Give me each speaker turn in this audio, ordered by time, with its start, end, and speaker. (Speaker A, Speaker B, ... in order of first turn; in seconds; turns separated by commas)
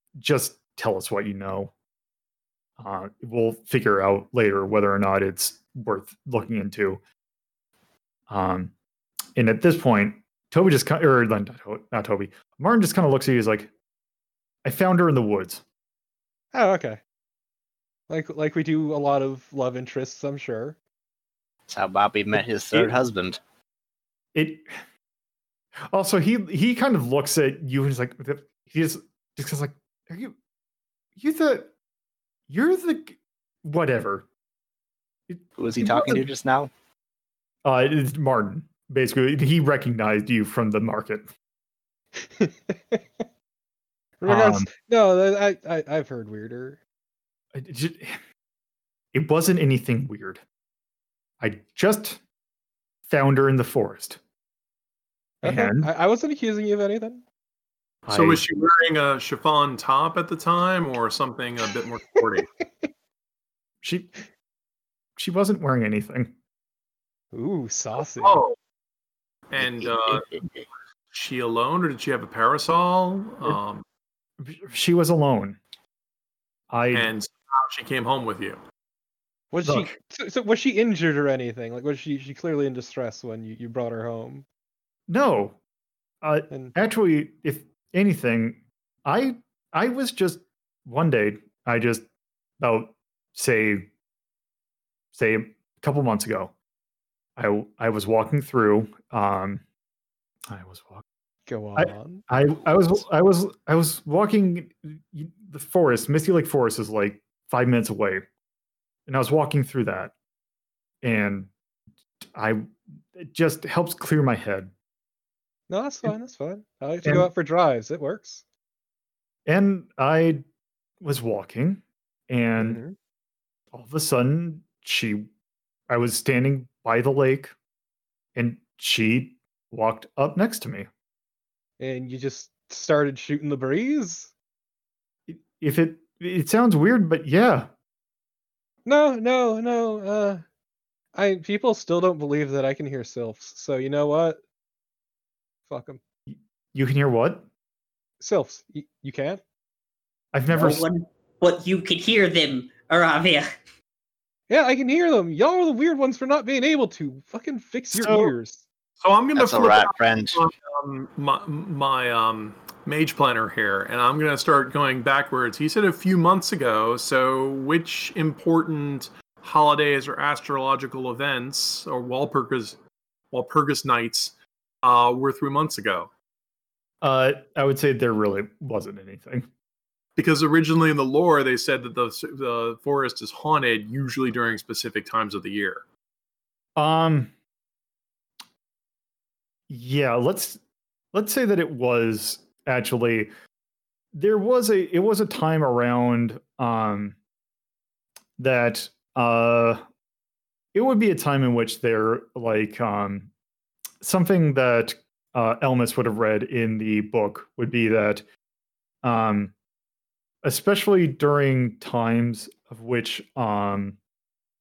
Speaker A: 0.2-1.7, Speaker A: 2.8-7.0, Speaker A: 8.3-8.7, Speaker A: 9.4-13.7, Speaker A: 14.6-15.6, Speaker B: 16.5-17.0, Speaker B: 18.1-20.8, Speaker C: 21.7-23.4, Speaker A: 22.3-22.9, Speaker A: 24.3-24.6, Speaker A: 25.9-30.3, Speaker A: 31.1-31.7, Speaker A: 32.5-34.3, Speaker A: 35.3-36.3, Speaker C: 35.6-36.7, Speaker A: 37.6-41.3, Speaker B: 42.1-43.2, Speaker B: 44.2-46.8, Speaker A: 44.2-44.7, Speaker A: 47.5-48.2, Speaker A: 49.1-50.4, Speaker A: 51.4-52.2, Speaker A: 53.1-54.2, Speaker B: 55.4-57.2, Speaker A: 55.4-55.9, Speaker A: 58.1-58.4, Speaker D: 58.1-62.5, Speaker B: 62.4-62.9, Speaker A: 63.8-64.1, Speaker A: 65.2-66.3, Speaker B: 67.3-68.4, Speaker D: 68.0-68.6, Speaker D: 69.5-70.2, Speaker C: 69.6-70.6, Speaker D: 71.1-73.8, Speaker A: 74.4-75.6, Speaker A: 76.7-77.1, Speaker D: 76.9-78.6, Speaker B: 79.5-84.5, Speaker A: 79.6-80.0, Speaker A: 85.1-85.6, Speaker A: 86.2-92.0, Speaker B: 86.5-86.8, Speaker A: 92.6-93.9, Speaker A: 95.1-96.5, Speaker A: 97.4-99.6, Speaker A: 100.5-101.0, Speaker B: 101.5-102.3, Speaker A: 101.8-108.2, Speaker A: 109.1-110.1, Speaker A: 111.0-111.5, Speaker A: 112.3-114.7, Speaker B: 115.7-118.4, Speaker A: 117.0-117.3, Speaker A: 119.5-120.4, Speaker A: 121.0-122.8, Speaker B: 122.6-123.0, Speaker A: 123.7-125.3, Speaker A: 125.9-127.5, Speaker A: 128.4-130.9, Speaker B: 131.8-134.3, Speaker A: 135.3-137.7, Speaker B: 138.9-140.4, Speaker B: 141.1-144.4, Speaker B: 145.7-146.0, Speaker A: 146.3-147.5, Speaker B: 148.2-149.4, Speaker A: 150.3-150.9, Speaker E: 150.5-153.5, Speaker B: 154.5-158.7, Speaker A: 157.9-158.3, Speaker D: 159.0-172.8, Speaker C: 159.4-160.4, Speaker D: 173.3-176.1, Speaker A: 177.0-179.5, Speaker D: 180.2-185.8, Speaker A: 186.8-187.3, Speaker A: 189.7-190.6, Speaker A: 191.1-193.3, Speaker A: 194.1-197.2, Speaker A: 198.4-199.8, Speaker A: 200.7-203.3, Speaker A: 204.0-208.2, Speaker A: 209.0-209.5, Speaker A: 210.4-214.0